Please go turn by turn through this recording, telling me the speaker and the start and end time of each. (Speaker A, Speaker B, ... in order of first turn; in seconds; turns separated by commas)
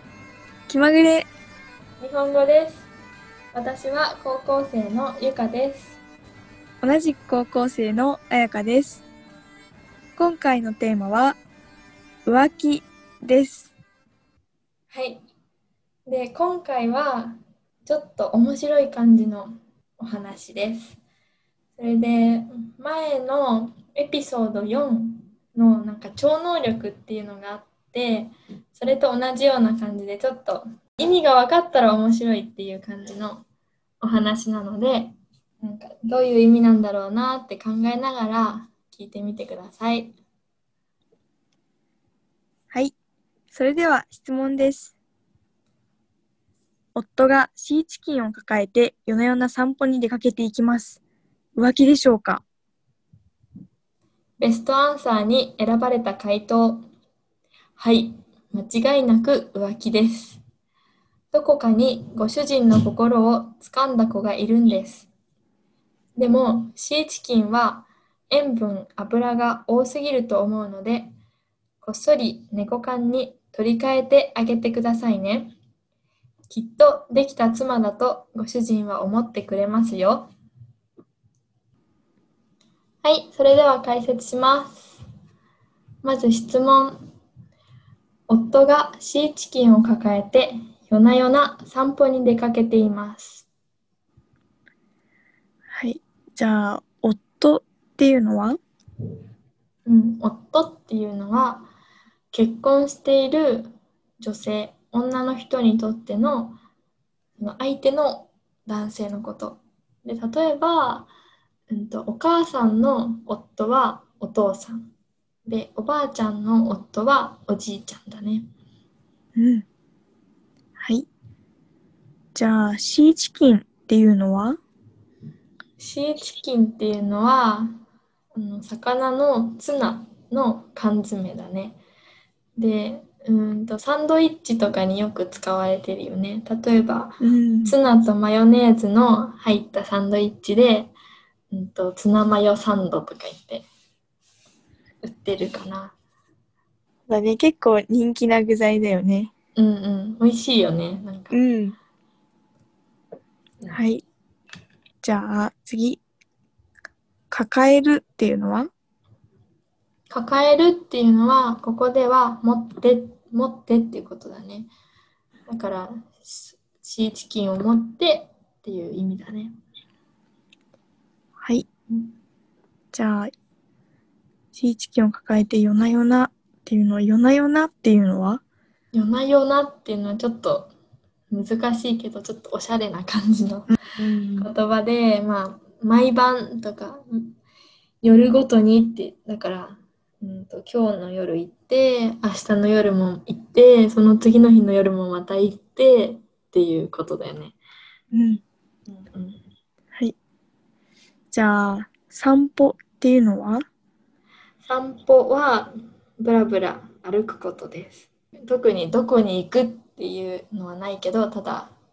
Speaker A: 0.7-1.3, Speaker B: 2.0-2.9, Speaker B: 3.5-6.0, Speaker A: 6.8-9.0, Speaker A: 10.2-11.4, Speaker A: 12.2-13.7, Speaker B: 14.9-15.2, Speaker B: 16.1-21.0, Speaker B: 21.8-33.4, Speaker B: 34.0-40.1, Speaker A: 43.5-44.9, Speaker A: 46.9-51.0, Speaker A: 51.5-52.4, Speaker B: 54.4-56.9, Speaker B: 57.8-60.4, Speaker B: 61.3-65.1, Speaker B: 66.2-71.1, Speaker B: 71.8-75.5, Speaker B: 76.5-80.3, Speaker B: 83.0-85.0, Speaker B: 86.0-87.0, Speaker B: 88.3-93.5, Speaker A: 95.7-98.6, Speaker B: 99.8-101.7, Speaker B: 102.3-106.6, Speaker B: 107.4-111.1, Speaker B: 111.7-114.9, Speaker B: 115.4-118.5, Speaker A: 119.3-119.6, Speaker A: 120.8-121.1, Speaker A: 122.3-124.6, Speaker B: 125.8-127.8, Speaker B: 128.3-131.8, Speaker B: 132.6-140.9, Speaker A: 137.2-137.7, Speaker B: 141.5-143.7, Speaker B: 145.0-145.9, Speaker A: 147.1-149.3, Speaker B: 149.6-151.4, Speaker A: 151.3-151.8, Speaker A: 153.7-154.0, Speaker A: 155.0-156.0, Speaker A: 157.3-158.7, Speaker B: 160.1-164.7, Speaker B: 165.5-169.5, Speaker A: 172.9-173.3, Speaker A: 174.5-178.4, Speaker B: 178.9-180.7, Speaker B: 181.3-183.8, Speaker A: 183.7-184.5, Speaker B: 184.4-187.4, Speaker B: 188.0-197.6, Speaker A: 198.1-198.4, Speaker B: 198.9-199.4, Speaker A: 201.3-203.6, Speaker B: 204.6-211.7